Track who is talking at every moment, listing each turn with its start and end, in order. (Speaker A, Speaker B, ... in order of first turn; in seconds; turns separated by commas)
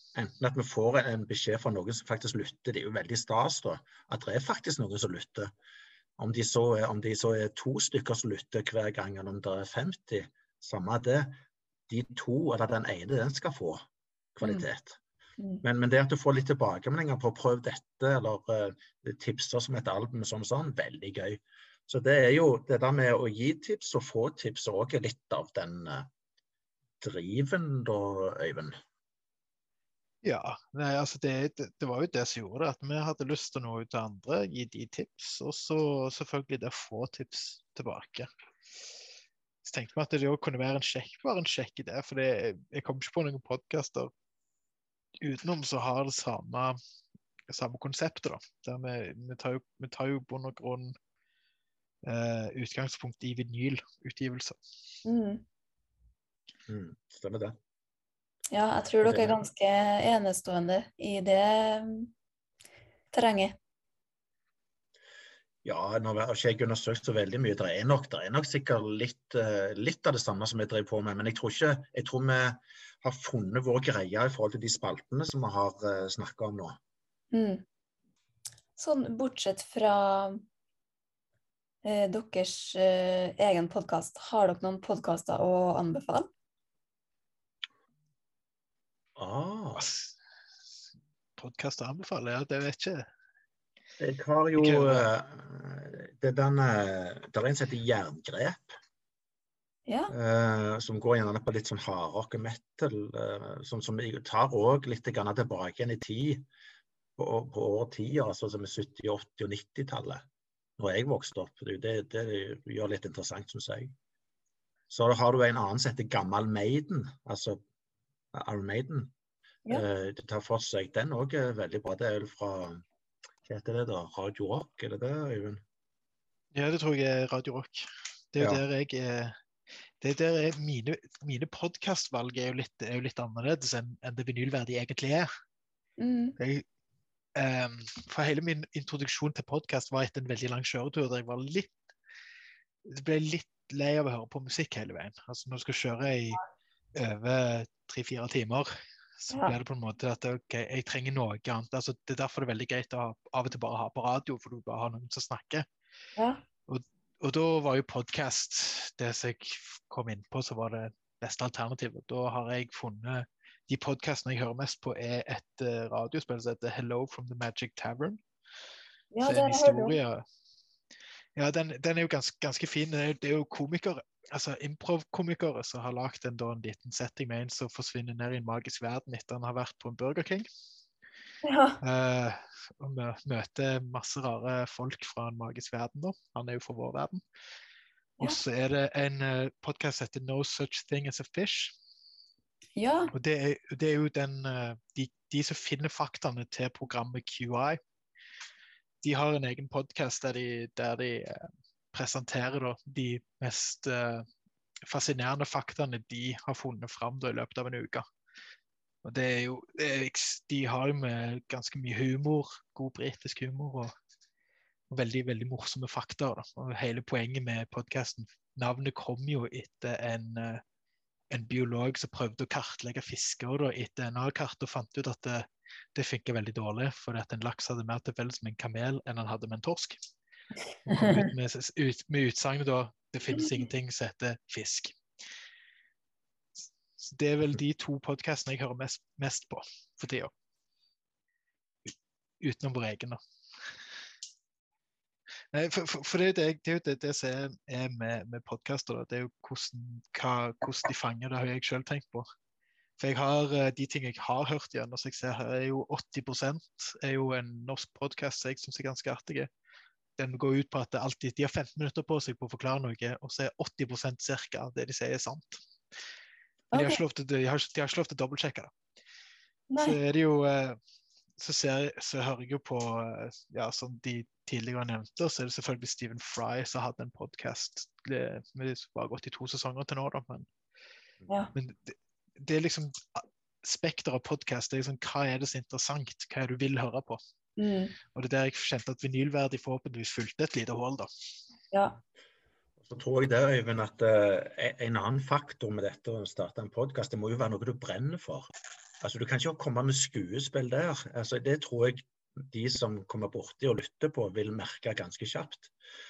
Speaker A: 0.1-5.5, Speaker A: 6.2-11.4, Speaker A: 11.9-13.8, Speaker A: 14.4-15.0, Speaker A: 15.6-26.1, Speaker A: 27.0-28.8, Speaker B: 30.2-38.3, Speaker B: 39.6-44.1, Speaker B: 45.2-46.8, Speaker B: 47.5-50.9, Speaker B: 52.0-54.6, Speaker C: 55.0-55.4, Speaker A: 56.7-57.6, Speaker C: 58.5-62.1, Speaker A: 59.0-59.4, Speaker C: 63.1-63.6, Speaker A: 65.6-76.8, Speaker C: 77.3-77.6, Speaker C: 78.8-80.5, Speaker C: 81.8-86.3, Speaker A: 89.2-89.9, Speaker B: 89.8-90.2, Speaker B: 91.4-93.1, Speaker A: 94.0-98.7, Speaker B: 94.6-95.1, Speaker C: 99.9-100.1, Speaker A: 100.1-106.5, Speaker A: 107.2-110.2, Speaker A: 110.8-113.9, Speaker A: 114.9-117.6, Speaker A: 118.3-119.1, Speaker A: 119.7-122.8, Speaker A: 123.5-125.6, Speaker B: 126.5-129.3, Speaker A: 128.4-128.6, Speaker B: 130.0-135.3, Speaker C: 136.0-136.4, Speaker B: 136.4-136.7, Speaker B: 137.4-141.8, Speaker B: 142.9-146.4, Speaker B: 146.9-155.7, Speaker C: 149.3-149.6, Speaker C: 156.2-156.4, Speaker B: 156.7-168.2, Speaker C: 169.1-170.0, Speaker B: 169.2-170.2, Speaker B: 171.4-180.5, Speaker C: 181.4-181.8, Speaker B: 181.8-187.2, Speaker B: 188.2-191.7, Speaker C: 192.8-193.1, Speaker B: 193.1-197.8, Speaker B: 199.0-204.3, Speaker B: 204.9-208.1, Speaker B: 209.0-213.9, Speaker B: 214.9-220.6, Speaker B: 221.3-230.0, Speaker B: 230.9-235.0, Speaker C: 231.0-231.3, Speaker B: 237.0-240.3, Speaker B: 242.4-243.8, Speaker B: 245.5-252.3, Speaker B: 253.0-259.5, Speaker B: 260.2-265.6, Speaker C: 266.7-267.0, Speaker B: 266.7-268.7, Speaker C: 269.7-270.0, Speaker B: 269.8-270.8, Speaker B: 271.4-280.5, Speaker B: 281.5-287.2, Speaker C: 287.6-287.9, Speaker B: 288.1-291.1, Speaker C: 291.7-292.0, Speaker A: 292.8-298.5, Speaker A: 299.0-305.7